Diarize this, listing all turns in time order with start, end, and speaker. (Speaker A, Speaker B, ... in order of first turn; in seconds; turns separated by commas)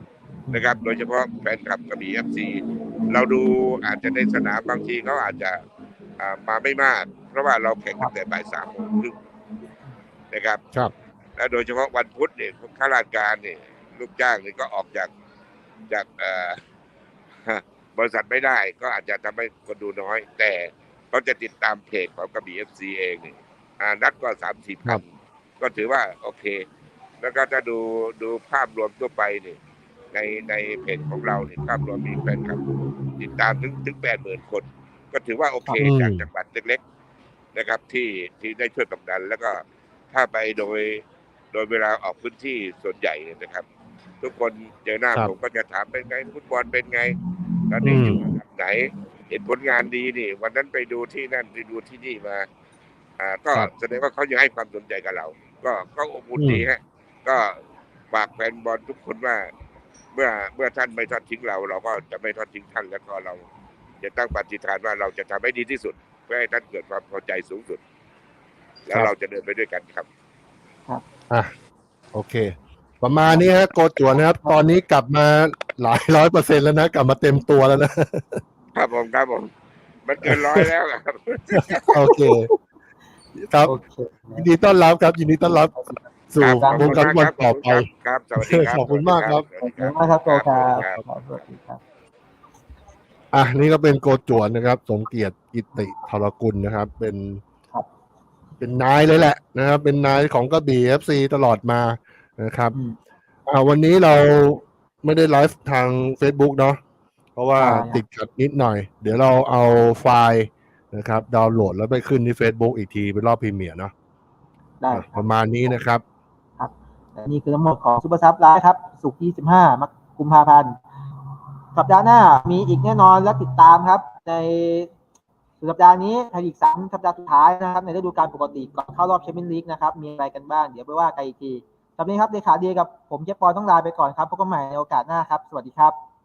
Speaker A: 0.5-0.8, Speaker B: 0.5-5.6, Speaker B: 6.2-9.1, Speaker B: 10.3-10.6, Speaker B: 11.4-15.1, Speaker B: 15.9-16.6, Speaker B: 17.4-25.0, Speaker B: 25.6-26.6, Speaker B: 27.2-29.6, Speaker B: 30.1-32.6, Speaker B: 33.2-36.8, Speaker C: 35.8-36.3, Speaker B: 37.5-43.6, Speaker B: 44.2-47.2, Speaker B: 47.7-52.5, Speaker C: 47.8-48.2, Speaker B: 53.2-57.6, Speaker C: 56.4-56.7, Speaker B: 58.1-59.5, Speaker B: 60.1-63.5, Speaker B: 64.0-67.8, Speaker B: 68.9-70.1, Speaker C: 72.1-78.4, Speaker A: 74.2-74.6, Speaker B: 78.7-79.5, Speaker B: 80.1-82.0, Speaker C: 80.2-80.7, Speaker C: 81.5-82.5, Speaker A: 83.7-84.5, Speaker C: 84.4-87.9, Speaker A: 85.8-86.0, Speaker B: 86.4-91.0, Speaker A: 86.5-87.1, Speaker C: 88.4-89.4, Speaker A: 89.6-91.8, Speaker C: 93.3-97.4, Speaker C: 98.6-102.8, Speaker C: 103.5-106.8, Speaker C: 107.4-113.9, Speaker A: 107.6-108.0, Speaker A: 114.8-115.2, Speaker C: 114.9-116.0, Speaker A: 116.6-120.8, Speaker A: 121.8-124.9, Speaker A: 125.6-135.9